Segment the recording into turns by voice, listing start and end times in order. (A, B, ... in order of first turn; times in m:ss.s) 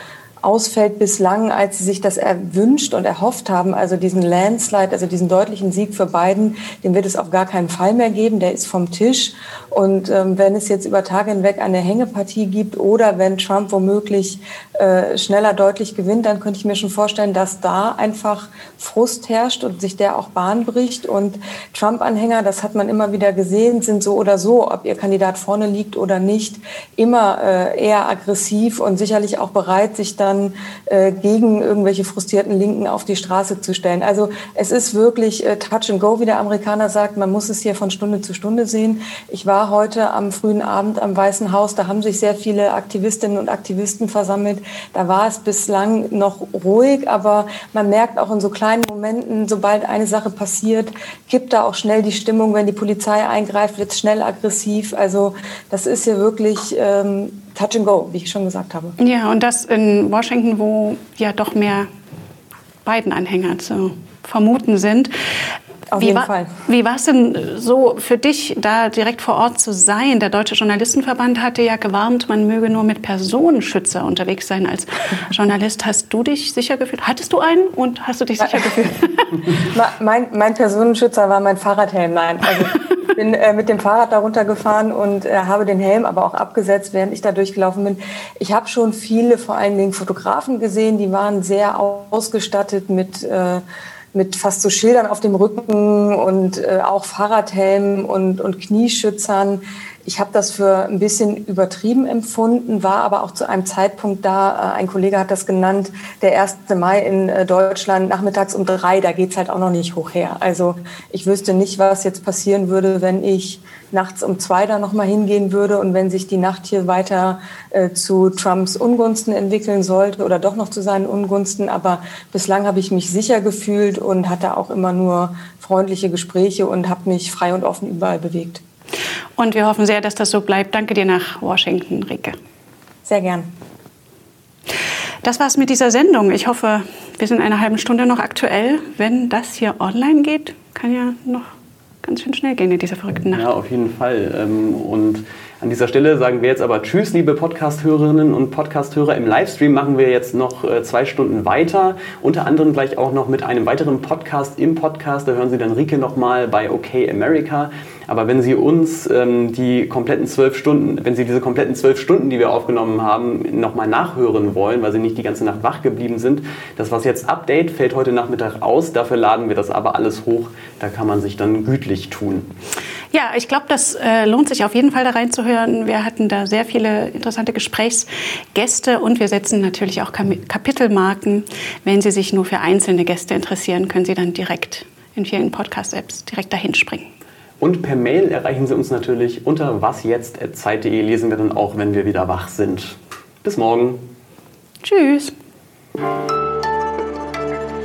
0:00.4-0:58.9 A
0:59.0-1:01.9 B
1:02.8-1:05.1 B
1:05.9-1:06.5 A
1:06.0-1:19.4 B
1:19.5-1:33.6 A
1:34.1-2:08.6 A
2:09.4-2:12.4 B
2:13.0-2:13.5 A
2:15.2-2:21.5 B
2:22.0-2:23.4 B
2:23.3-2:52.5 C
2:53.1-3:07.1 B
3:07.6-3:14.0 C
3:14.8-3:15.3 B